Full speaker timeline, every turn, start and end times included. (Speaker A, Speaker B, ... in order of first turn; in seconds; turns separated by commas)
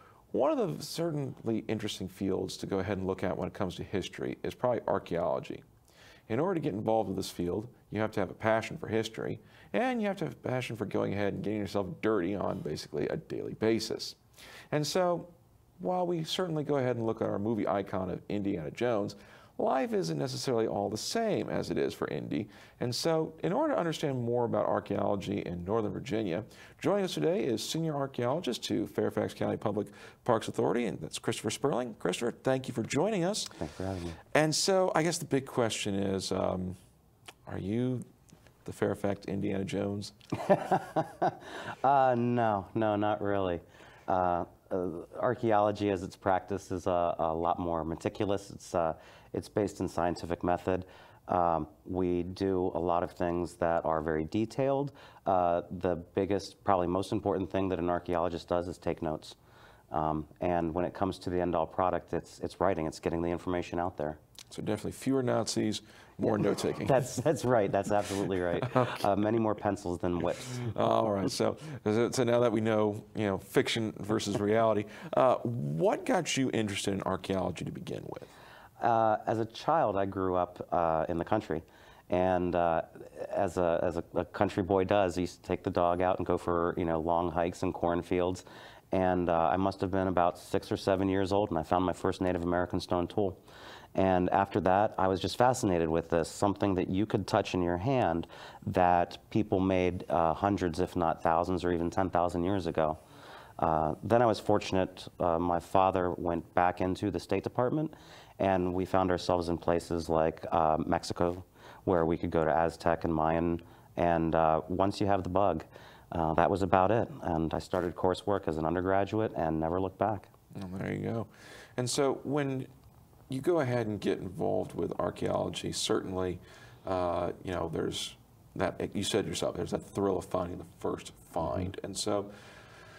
Speaker A: 0.3-5.6, Speaker A: 6.3-14.2, Speaker A: 14.7-33.6, Speaker B: 33.6-34.2, Speaker A: 34.3-36.8, Speaker A: 37.5-38.0, Speaker A: 38.6-40.1, Speaker B: 40.4-59.4, Speaker B: 59.9-64.2, Speaker A: 64.5-67.1, Speaker B: 66.8-70.7, Speaker A: 70.5-78.3, Speaker B: 78.8-93.4, Speaker B: 94.0-103.0, Speaker B: 103.6-120.3, Speaker A: 120.5-122.7, Speaker A: 123.3-132.3